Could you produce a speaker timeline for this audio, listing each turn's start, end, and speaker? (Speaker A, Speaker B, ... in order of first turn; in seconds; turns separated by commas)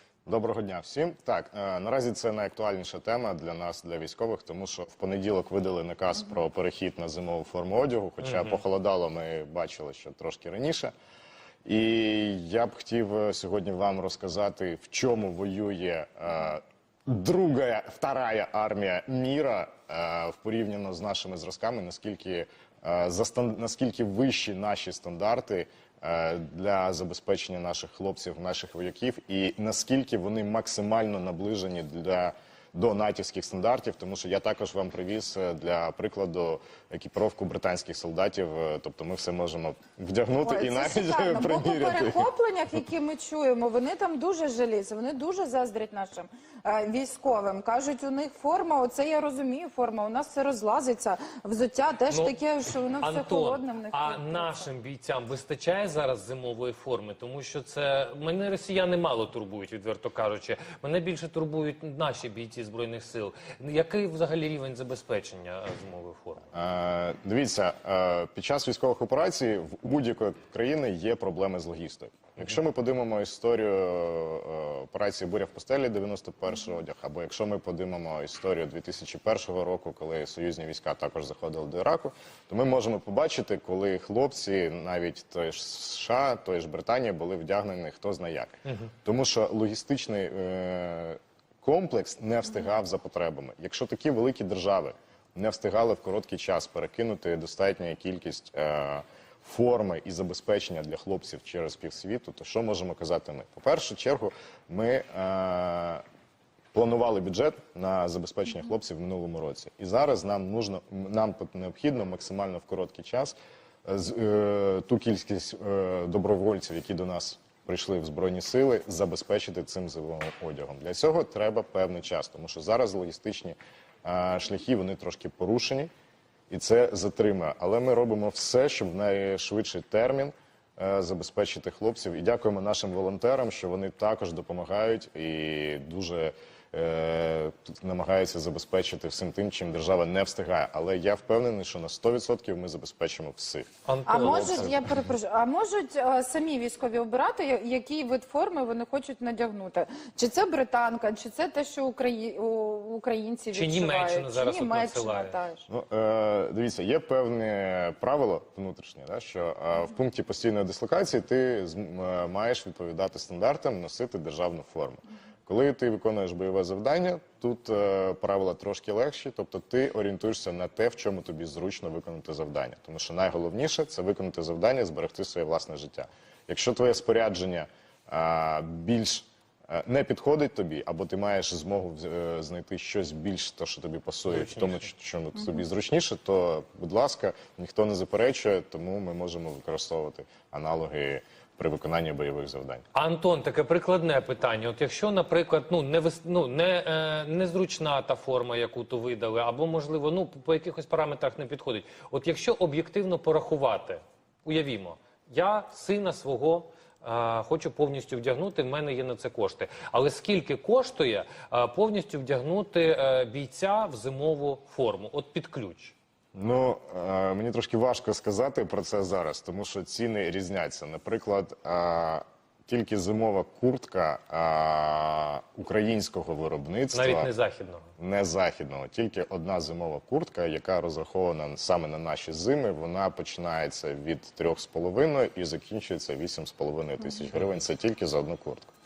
Speaker A: 0.3-10.9, Speaker B: 8.2-8.6, Speaker A: 11.7-42.3, Speaker C: 40.4-54.7, Speaker B: 52.1-52.4, Speaker B: 53.0-66.4, Speaker A: 66.5-106.0, Speaker A: 106.7-125.9, Speaker A: 126.5-144.9, Speaker B: 143.8-144.7, Speaker C: 144.1-155.7, Speaker B: 153.5-155.4, Speaker A: 155.7-192.8, Speaker B: 184.3-184.8, Speaker B: 192.9-215.9, Speaker A: 216.3-227.3, Speaker B: 226.9-227.9, Speaker A: 228.0-238.7